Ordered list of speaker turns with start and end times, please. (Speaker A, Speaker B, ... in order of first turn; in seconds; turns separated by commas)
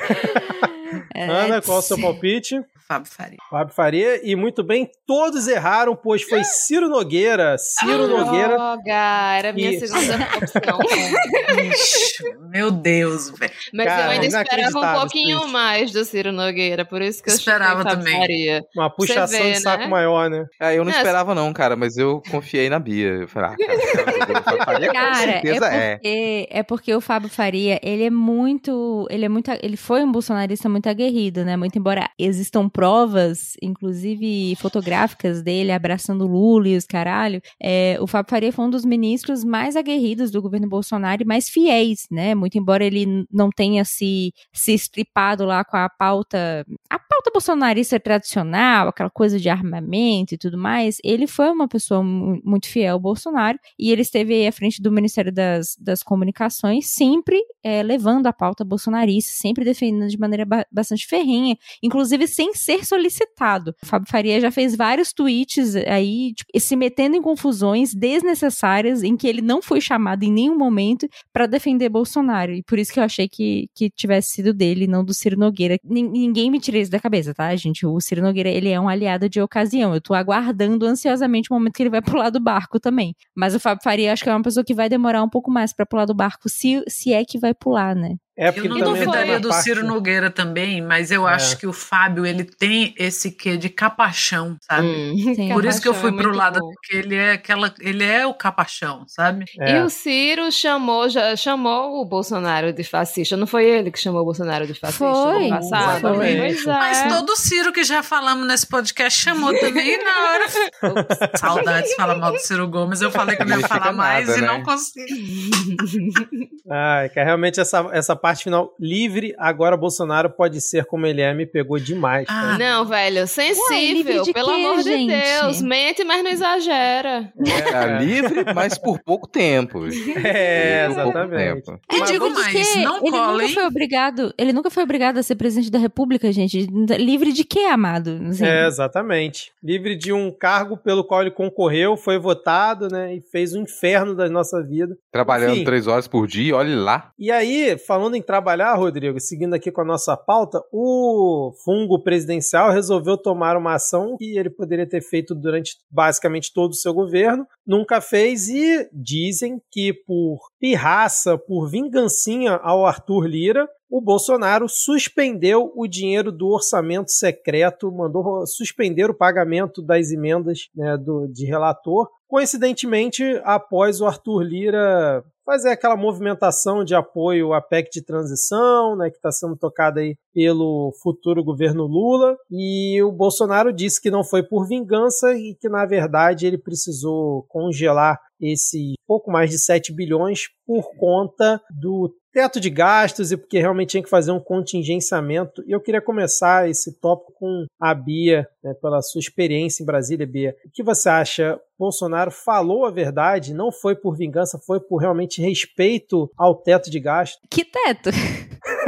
Speaker A: 0.1-0.4, Speaker B: 0.2-2.2, Speaker A: 1.2-2.6, Speaker C: 2.9-3.4, Speaker A: 3.5-8.6, Speaker D: 7.8-11.8, Speaker A: 9.5-11.1, Speaker C: 11.5-14.3, Speaker D: 13.7-20.0, Speaker A: 13.8-15.5, Speaker C: 17.3-18.3, Speaker A: 18.7-20.5, Speaker E: 20.6-26.0, Speaker D: 20.9-21.1, Speaker D: 23.6-24.9, Speaker B: 24.9-88.2, Speaker A: 88.4-89.9, Speaker C: 88.5-95.0, Speaker D: 88.7-89.4, Speaker A: 91.2-91.6, Speaker D: 94.8-96.8, Speaker B: 95.3-95.9, Speaker C: 95.5-99.5, Speaker A: 99.6-99.9, Speaker D: 99.6-107.2, Speaker B: 104.8-107.2, Speaker A: 105.3-106.7, Speaker C: 106.8-110.5, Speaker D: 109.4-112.3, Speaker A: 110.9-111.4, Speaker C: 111.3-115.2, Speaker E: 113.4-114.7, Speaker D: 115.1-116.4, Speaker A: 116.7-122.6, Speaker C: 122.3-122.9, Speaker D: 122.5-127.5, Speaker B: 123.5-125.7, Speaker A: 127.4-128.5, Speaker E: 127.5-130.0, Speaker D: 129.9-131.2, Speaker A: 130.2-132.3, Speaker E: 130.6-131.8, Speaker B: 131.9-138.7, Speaker C: 131.9-133.7, Speaker A: 138.4-145.7, Speaker E: 145.1-147.1, Speaker A: 147.2-207.4, Speaker B: 207.5-208.5